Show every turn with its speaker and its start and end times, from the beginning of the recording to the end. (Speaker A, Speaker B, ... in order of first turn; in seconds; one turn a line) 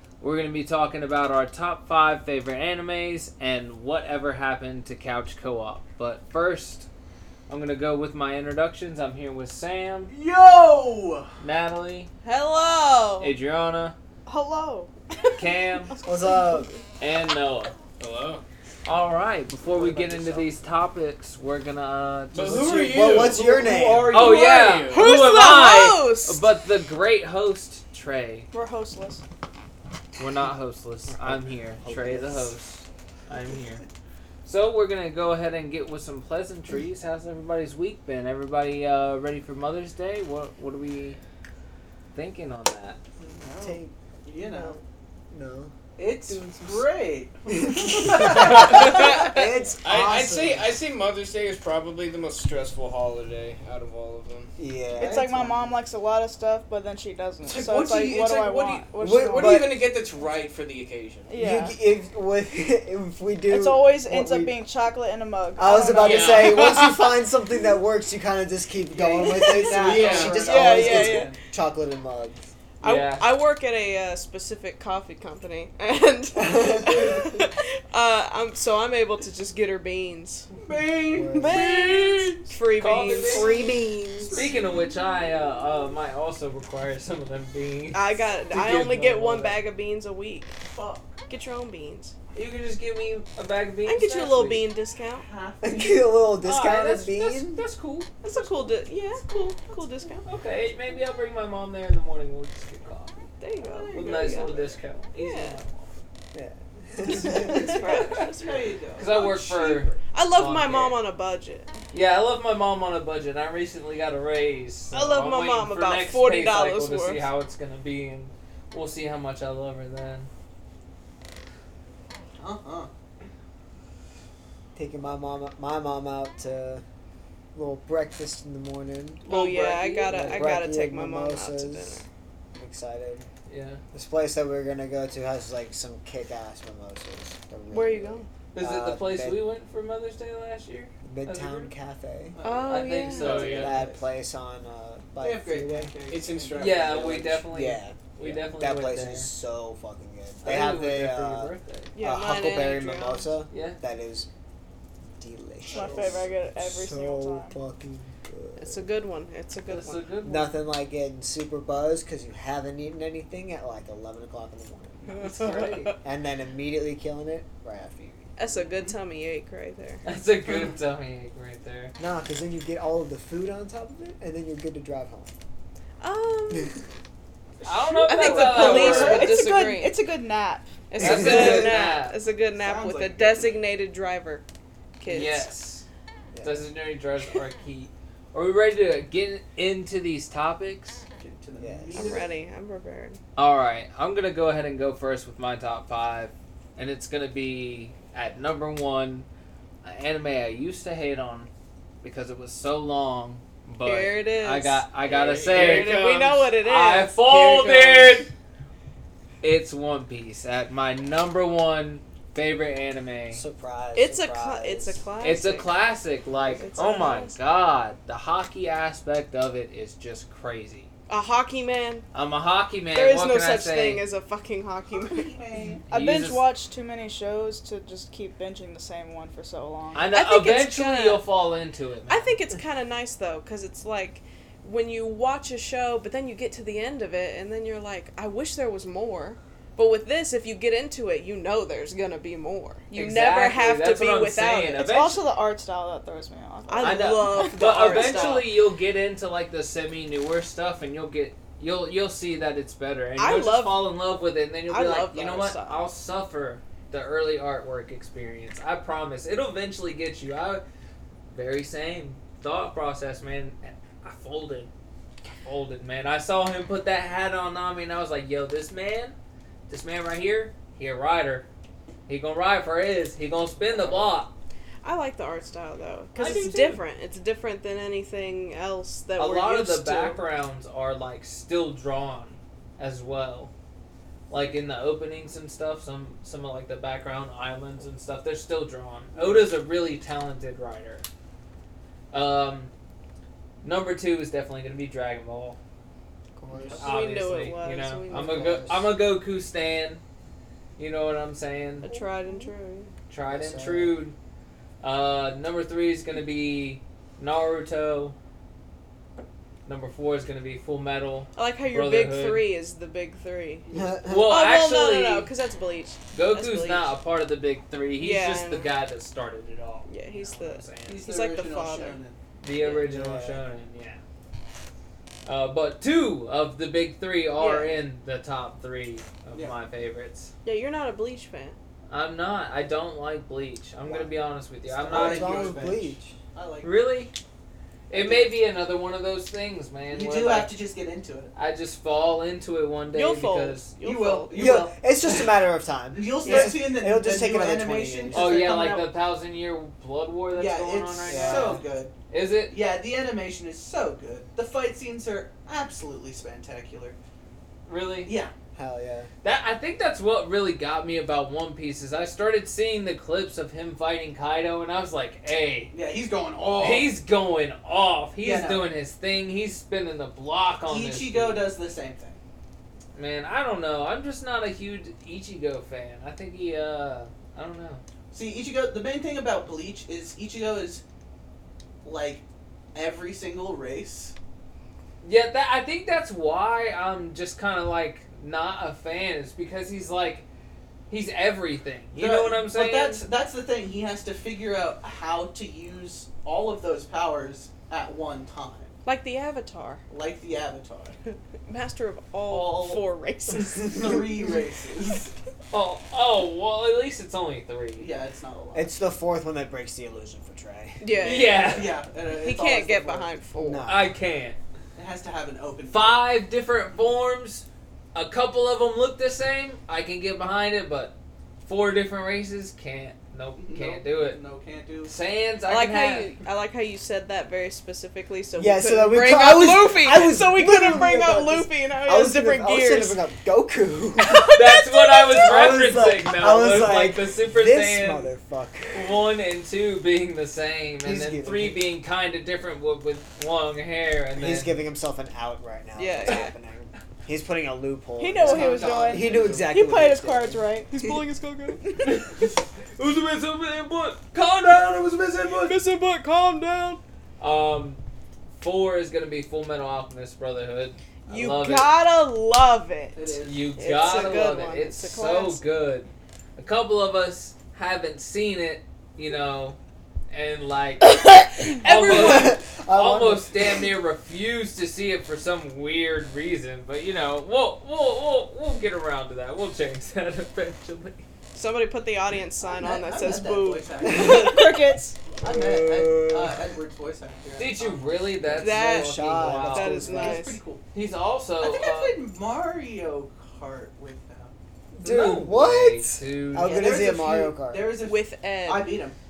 Speaker A: 0.2-6.9
Speaker A: 7.5-10.1
Speaker B: 10.1-11.3
Speaker A: 11.4-12.1
Speaker C: 12.2-13.3
Speaker A: 13.2-13.9
Speaker D: 14.2-16.8
Speaker A: 15.3-15.9
Speaker E: 16.1-16.7
Speaker A: 17.0-17.7
Speaker F: 18.0-18.4
Speaker A: 18.8-23.0
Speaker F: 19.7-20.5
Speaker F: 22.3-25.2
Speaker E: 22.4-24.3
Speaker B: 22.9-24.6
Speaker A: 24.1-28.5
Speaker C: 24.2-26.5
Speaker D: 28.5-29.2
Speaker A: 30.1-33.8
Speaker E: 31.1-32.5
Speaker A: 34.4-41.2
Speaker A: 42.1-43.0
Speaker B: 43.2-44.8
Speaker E: 43.6-45.7
Speaker B: 46.0-50.6
Speaker E: 46.3-46.8
Speaker E: 47.5-50.5
Speaker A: 48.2-49.1
Speaker F: 49.8-54.5
Speaker E: 54.6-55.6
Speaker D: 54.9-59.7
Speaker B: 55.0-55.4
Speaker B: 57.5-58.9
Speaker E: 59.0-59.8
Speaker F: 59.1-61.3
Speaker D: 61.3-61.8
Speaker E: 61.4-64.6
Speaker D: 63.5-66.5
Speaker E: 65.5-72.5
Speaker A: 65.9-66.7
Speaker C: 66.6-67.0
Speaker B: 68.9-71.4
Speaker F: 69.7-70.5
Speaker C: 70.5-71.3
Speaker D: 70.9-71.1
Speaker C: 72.8-80.5
Speaker A: 72.8-73.3
Speaker E: 76.3-77.5
Speaker B: 80.6-82.5
Speaker E: 81.1-81.8
Speaker C: 81.3-83.5
Speaker A: 82.7-83.6
Speaker E: 83.2-84.5
Speaker B: 83.4-84.9
Speaker A: 84.3-89.6
Speaker C: 87.9-90.5
Speaker B: 90.7-91.2
Speaker C: 91.3-92.1
Speaker A: 92.3-94.7
Speaker C: 93.8-95.3
Speaker B: 95.2-96.0
Speaker E: 95.6-97.6
Speaker A: 96.4-98.7
Speaker C: 98.2-100.3
Speaker A: 100.2-103.2
Speaker C: 103.4-104.6
Speaker B: 103.7-104.8
Speaker A: 103.9-105.9
Speaker C: 105.1-105.6
Speaker E: 106.3-107.8
Speaker C: 107.1-108.7
Speaker B: 107.2-110.0
Speaker A: 107.7-111.0
Speaker C: 110.1-111.8
Speaker A: 111.9-120.3
Speaker C: 114.9-117.3
Speaker B: 122.4-122.9
Speaker E: 124.7-126.8
Speaker E: 127.5-129.2
Speaker A: 129.2-130.6
Speaker C: 129.3-132.0
Speaker E: 130.1-133.3
Speaker A: 133.5-133.8
Speaker E: 133.9-139.4
Speaker C: 137.7-138.3
Speaker A: 138.5-141.7
Speaker E: 141.0-142.4
Speaker B: 142.3-144.0
Speaker C: 142.4-143.4
Speaker A: 142.7-143.8
Speaker F: 143.2-143.8
Speaker E: 143.3-145.9
Speaker B: 145.2-147.4
Speaker F: 146.1-147.5
Speaker A: 146.6-149.3
Speaker E: 147.5-154.3
Speaker A: 150.4-151.9
Speaker C: 151.9-153.3
Speaker A: 153.5-153.8
Speaker E: 155.2-158.8
Speaker B: 155.7-156.3
Speaker D: 155.7-157.6
Speaker C: 158.6-160.2
Speaker A: 159.7-160.6
Speaker E: 160.2-168.3
Speaker A: 165.1-166.0
Speaker C: 165.1-166.0
Speaker C: 168.4-170.0
Speaker A: 170.0-171.9
Speaker E: 172.0-175.3
Speaker C: 176.0-176.8
Speaker B: 177.6-179.6
Speaker A: 177.6-179.3
Speaker C: 178.1-180.0
Speaker D: 178.5-180.8
Speaker C: 180.9-184.4
Speaker E: 181.0-181.8
Speaker A: 181.0-182.2
Speaker B: 182.6-183.6
Speaker C: 185.0-185.5
Speaker A: 185.1-185.8
Speaker E: 186.3-186.7
Speaker A: 186.4-191.0
Speaker B: 191.2-192.3
Speaker E: 191.6-192.2
Speaker C: 191.9-193.2
Speaker A: 193.3-199.3
Speaker A: 199.8-201.5
Speaker A: 202.0-208.3
Speaker C: 203.8-204.8
Speaker F: 205.0-206.5
Speaker C: 205.5-208.3
Speaker A: 209.4-213.4
Speaker E: 213.3-215.0
Speaker C: 213.9-215.8
Speaker A: 215.2-220.9
Speaker C: 216.4-217.4
Speaker C: 221.1-222.0
Speaker A: 222.1-224.0
Speaker C: 222.9-225.3
Speaker B: 225.0-225.8
Speaker D: 225.9-230.1
Speaker A: 225.9-226.4
Speaker A: 229.9-232.4
Speaker C: 230.1-231.2
Speaker C: 232.1-244.8
Speaker A: 242.9-245.2
Speaker D: 244.8-248.3
Speaker C: 246.7-248.5
Speaker A: 246.8-260.6
Speaker C: 253.2-253.9
Speaker C: 254.7-255.8
Speaker A: 261.3-264.7
Speaker A: 265.4-269.1
Speaker A: 269.7-271.5
Speaker A: 272.1-274.3
Speaker C: 274.8-280.2
Speaker A: 276.1-276.8
Speaker A: 279.2-283.5
Speaker A: 284.3-291.0
Speaker B: 289.1-289.4
Speaker A: 292.1-292.7
Speaker A: 293.6-295.6
Speaker E: 296.4-296.9
Speaker B: 296.5-296.9
Speaker C: 296.8-298.6
Speaker A: 296.8-300.0
Speaker E: 298.1-298.9
Speaker A: 300.8-302.0
Speaker C: 301.8-302.9
Speaker A: 303.1-304.1
Speaker E: 303.3-304.0
Speaker A: 304.8-308.1
Speaker A: 309.6-312.5
Speaker C: 311.3-316.9
Speaker A: 313.7-315.3
Speaker E: 313.7-314.4
Speaker A: 316.1-321.0
Speaker C: 318.0-318.7
Speaker C: 319.9-322.0
Speaker B: 320.9-322.1
Speaker A: 322.4-324.0
Speaker E: 322.6-323.4
Speaker A: 325.2-330.3
Speaker C: 327.4-327.7
Speaker C: 330.4-331.6
Speaker A: 331.9-335.7
Speaker E: 333.9-334.1
Speaker B: 334.7-336.8
Speaker E: 334.9-336.1
Speaker A: 336.6-337.1
Speaker A: 337.9-340.6
Speaker B: 337.9-338.4
Speaker B: 339.9-341.3
Speaker A: 341.3-343.7
Speaker C: 342.9-344.6
Speaker B: 343.8-345.3
Speaker E: 344.3-348.4
Speaker B: 345.9-348.9
Speaker C: 346.2-346.6
Speaker A: 348.1-352.5
Speaker B: 350.3-351.9
Speaker E: 351.1-351.6
Speaker B: 352.5-356.9
Speaker A: 357.7-358.1
Speaker B: 358.1-358.3
Speaker E: 358.5-359.1
Speaker A: 359.2-365.7
Speaker B: 365.7-366.9
Speaker A: 366.6-371.5
Speaker B: 368.2-368.6
Speaker B: 370.7-372.2
Speaker A: 372.9-377.8
Speaker B: 378.1-380.8
Speaker B: 381.8-384.1
Speaker A: 385.0-390.2
Speaker A: 390.9-393.0
Speaker B: 391.9-398.7
Speaker C: 398.8-399.8
Speaker B: 399.9-401.0
Speaker C: 401.4-404.0
Speaker B: 402.3-402.8
Speaker B: 403.6-405.1
Speaker A: 405.5-407.9
Speaker B: 407.8-408.7
Speaker E: 408.5-411.1
Speaker C: 410.8-413.7
Speaker A: 411.0-411.8
Speaker B: 411.4-413.1
Speaker E: 413.4-413.9
Speaker A: 413.6-414.4
Speaker B: 414.8-416.1
Speaker A: 415.7-424.2
Speaker B: 423.4-424.9
Speaker A: 424.9-426.2
Speaker C: 425.5-433.0
Speaker E: 428.4-434.3
Speaker C: 434.0-435.3
Speaker A: 434.3-438.1
Speaker E: 435.2-439.0
Speaker A: 438.7-444.5
Speaker E: 440.8-441.6
Speaker E: 444.1-450.4
Speaker C: 445.8-446.3
Speaker D: 448.0-450.7
Speaker B: 448.2-449.5
Speaker C: 450.7-451.6
Speaker D: 451.6-452.0
Speaker A: 451.8-455.6
Speaker C: 455.4-456.8
Speaker A: 457.2-457.8
Speaker A: 458.4-461.7
Speaker C: 461.1-465.4
Speaker B: 462.9-464.4
Speaker A: 463.2-469.6
Speaker A: 470.1-481.0
Speaker C: 471.3-472.3
Speaker E: 471.7-473.6
Speaker C: 481.3-483.8
Speaker B: 482.4-484.5
Speaker E: 483.8-484.5
Speaker D: 483.9-485.1
Speaker B: 485.2-488.4
Speaker E: 485.2-486.4
Speaker A: 487.4-489.9
Speaker E: 488.3-490.3
Speaker C: 488.4-490.4
Speaker B: 489.7-490.6
Speaker A: 490.7-492.0
Speaker B: 491.4-494.4
Speaker E: 494.7-497.7
Speaker A: 494.8-496.7
Speaker B: 496.4-499.0
Speaker C: 497.8-498.7